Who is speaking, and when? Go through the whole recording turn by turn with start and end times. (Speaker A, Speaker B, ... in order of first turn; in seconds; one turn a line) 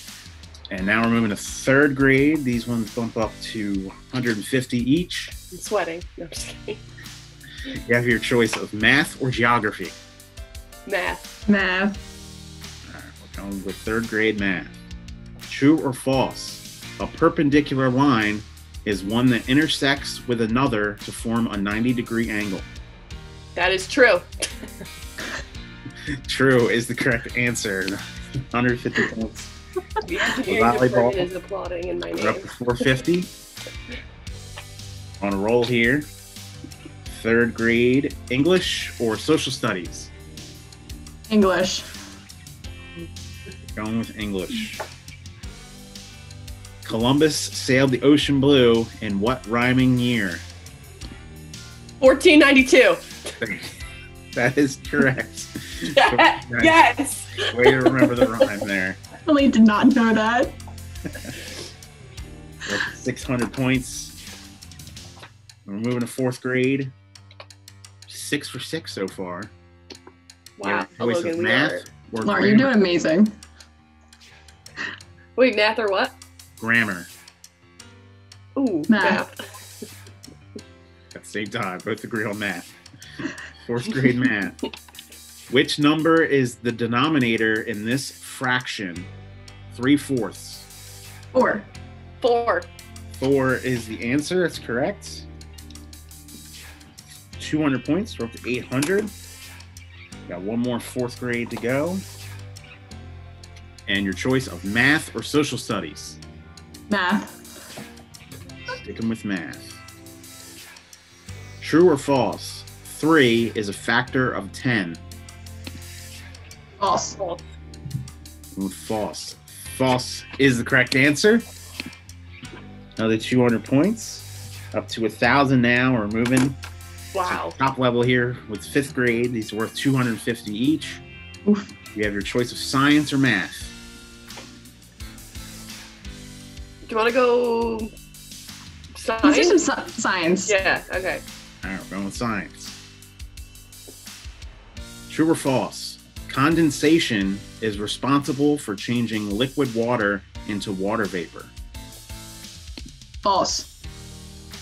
Speaker A: 0.7-5.3
Speaker B: 5.5-6.8
Speaker A: 7.7-10.0
Speaker B: 10.8-11.2
Speaker C: 11.5-12.0
Speaker A: 12.9-14.7
Speaker A: 15.5-22.7
Speaker B: 23.6-24.3
Speaker A: 26.1-28.0
Speaker A: 28.5-29.5
Speaker B: 30.0-32.4
Speaker A: 30.4-31.3
Speaker A: 32.2-33.3
Speaker A: 35.2-36.1
Speaker A: 37.0-40.1
Speaker C: 41.3-41.9
Speaker A: 43.8-44.8
Speaker A: 46.8-50.4
Speaker B: 52.0-53.0
Speaker A: 53.4-53.7
Speaker A: 54.3-56.8
Speaker B: 55.9-58.5
Speaker A: 57.4-59.0
Speaker C: 59.2-60.6
Speaker A: 62.7-64.2
Speaker A: 65.7-66.9
Speaker A: 68.1-69.5
Speaker B: 70.6-71.8
Speaker A: 70.6-72.8
Speaker C: 72.2-73.3
Speaker B: 75.3-76.2
Speaker A: 76.6-77.1
Speaker B: 78.6-79.4
Speaker C: 78.9-79.2
Speaker A: 81.1-82.7
Speaker A: 83.5-84.6
Speaker A: 85.5-89.1
Speaker A: 89.7-90.7
Speaker C: 91.3-91.7
Speaker B: 92.2-92.7
Speaker A: 93.2-95.3
Speaker A: 97.4-99.1
Speaker A: 100.3-102.0
Speaker A: 103.9-106.2
Speaker C: 106.9-107.3
Speaker A: 108.7-109.8
Speaker A: 111.6-115.0
Speaker C: 116.8-117.2
Speaker B: 117.2-117.4
Speaker A: 118.5-121.4
Speaker A: 123.0-126.6
Speaker B: 127.1-127.6
Speaker A: 127.2-131.0
Speaker C: 131.4-131.7
Speaker A: 131.9-133.8
Speaker B: 136.9-137.9
Speaker B: 138.9-139.6
Speaker C: 139.2-140.6
Speaker B: 140.4-141.2
Speaker A: 141.6-142.8
Speaker A: 145.1-151.6
Speaker C: 153.2-153.7